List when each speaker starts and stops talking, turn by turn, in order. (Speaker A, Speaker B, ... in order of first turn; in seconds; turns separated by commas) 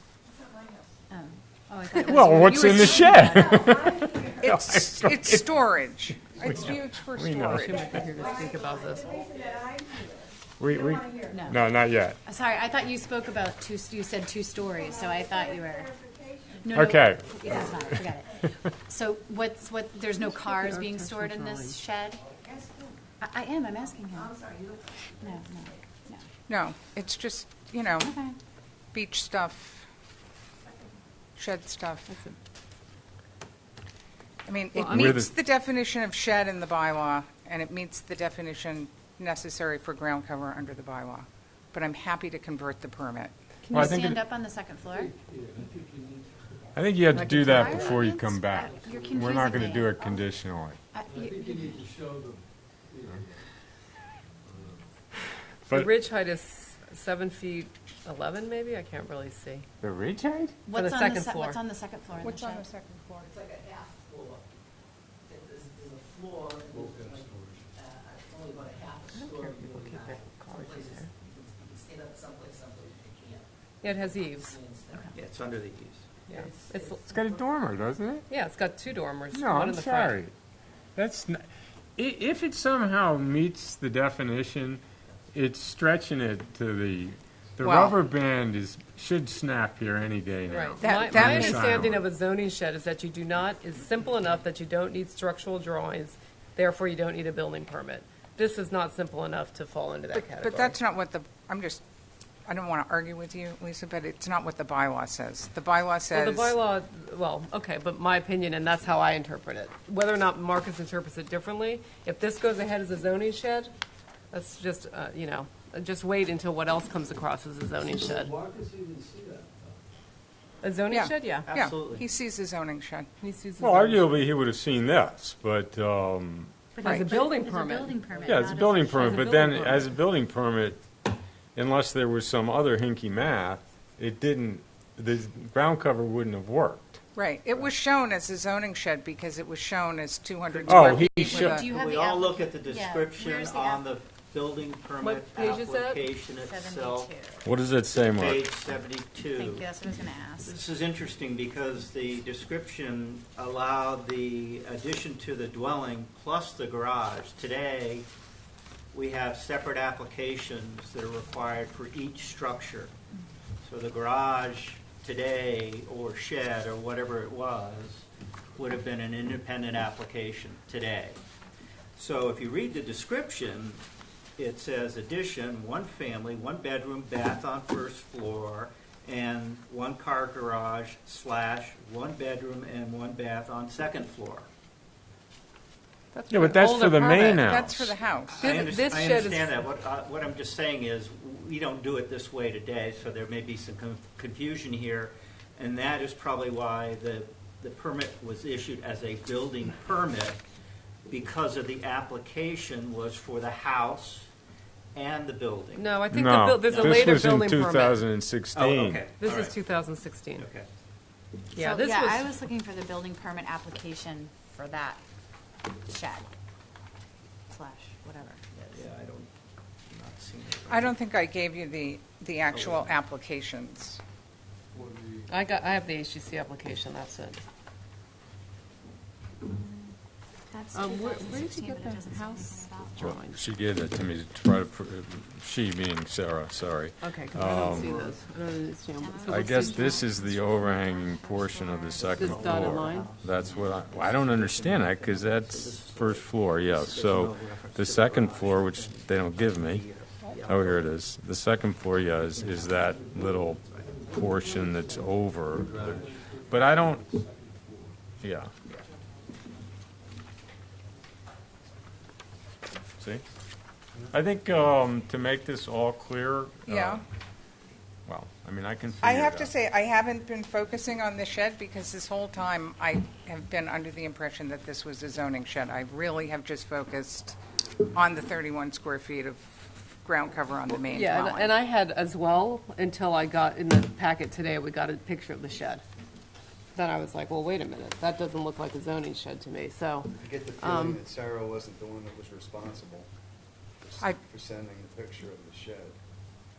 Speaker A: 1.1-3.7, Speaker B: 1.9-5.5, Speaker C: 2.5-3.2, Speaker C: 4.4-7.9, Speaker B: 6.3-8.0, Speaker D: 7.5-9.1, Speaker B: 10.6-12.2, Speaker A: 11.3-11.6, Speaker A: 12.2-16.0, Speaker A: 16.6-22.2, Speaker B: 16.7-18.0, Speaker D: 20.3-21.8, Speaker A: 23.2-24.4, Speaker A: 25.2-26.2, Speaker C: 26.5-28.1, Speaker A: 28.0-28.4, Speaker C: 28.9-29.9, Speaker C: 31.4-32.1, Speaker D: 32.1-32.4, Speaker C: 34.5-43.3, Speaker D: 34.8-35.2, Speaker B: 34.9-35.3, Speaker A: 43.7-45.1, Speaker B: 43.7-44.2, Speaker E: 44.9-48.0, Speaker B: 46.8-50.8, Speaker A: 47.3-50.2, Speaker E: 48.6-49.8, Speaker A: 50.9-51.8, Speaker E: 51.1-53.5, Speaker E: 54.4-54.9, Speaker B: 55.7-55.9, Speaker D: 55.7-59.7, Speaker B: 59.8-60.6, Speaker A: 60.7-62.7, Speaker D: 60.7-61.6, Speaker C: 62.2-63.3, Speaker F: 63.4-64.4, Speaker F: 65.3-75.0, Speaker E: 66.7-67.7, Speaker D: 69.1-71.1, Speaker D: 73.8-74.6, Speaker G: 75.1-76.0, Speaker D: 76.3-77.2, Speaker F: 76.3-76.9, Speaker B: 77.1-78.3, Speaker D: 78.3-80.2, Speaker B: 79.3-80.3, Speaker B: 81.0-84.8, Speaker B: 85.3-92.0, Speaker C: 87.6-87.9, Speaker D: 90.5-100.8, Speaker C: 90.8-91.9, Speaker C: 100.2-101.8, Speaker C: 102.5-106.5, Speaker D: 106.1-113.7, Speaker D: 114.3-118.3, Speaker E: 117.8-119.8, Speaker D: 120.6-121.5, Speaker C: 120.9-123.1, Speaker G: 121.5-122.1, Speaker D: 123.2-124.0, Speaker B: 123.6-126.5, Speaker A: 126.8-129.6, Speaker D: 126.8-128.0, Speaker B: 128.2-130.8, Speaker D: 129.0-129.9, Speaker B: 131.6-137.0, Speaker C: 137.2-141.7, Speaker G: 140.5-147.1, Speaker B: 140.7-141.6, Speaker A: 141.3-143.8, Speaker D: 145.0-146.1, Speaker A: 146.4-147.5, Speaker B: 147.4-148.5, Speaker G: 147.9-149.7, Speaker A: 149.3-150.6, Speaker G: 150.4-158.1, Speaker G: 158.9-162.9, Speaker G: 163.6-171.2, Speaker G: 172.0-173.8, Speaker G: 174.4-184.5, Speaker D: 186.1-187.5, Speaker B: 186.3-187.9, Speaker C: 187.4-188.4, Speaker G: 188.3-200.4, Speaker D: 188.4-189.6, Speaker G: 201.1-204.3, Speaker G: 204.9-205.9, Speaker D: 205.8-208.1, Speaker B: 206.1-209.1, Speaker G: 206.6-207.2, Speaker G: 208.5-209.6, Speaker D: 209.2-210.5, Speaker G: 210.4-210.7, Speaker D: 211.5-212.3, Speaker A: 211.6-215.0, Speaker A: 215.8-216.3, Speaker A: 217.5-218.4, Speaker G: 218.5-219.3, Speaker G: 219.9-221.0, Speaker C: 220.7-224.0, Speaker G: 222.5-223.0, Speaker E: 224.7-225.4, Speaker D: 225.3-227.4, Speaker A: 230.5-233.1, Speaker D: 230.7-233.4, Speaker B: 233.0-238.0, Speaker D: 237.0-240.0, Speaker G: 237.8-238.1, Speaker A: 239.0-243.1, Speaker B: 239.3-249.9, Speaker G: 242.1-250.9, Speaker D: 242.2-243.1, Speaker B: 250.4-255.9, Speaker E: 252.3-258.2, Speaker B: 256.5-257.1, Speaker B: 258.2-258.5, Speaker B: 264.1-267.0, Speaker C: 266.7-267.0, Speaker B: 268.1-269.5, Speaker C: 269.0-277.4, Speaker C: 277.9-281.5, Speaker D: 280.9-285.8, Speaker D: 286.8-291.0, Speaker H: 290.1-293.1, Speaker H: 293.8-296.0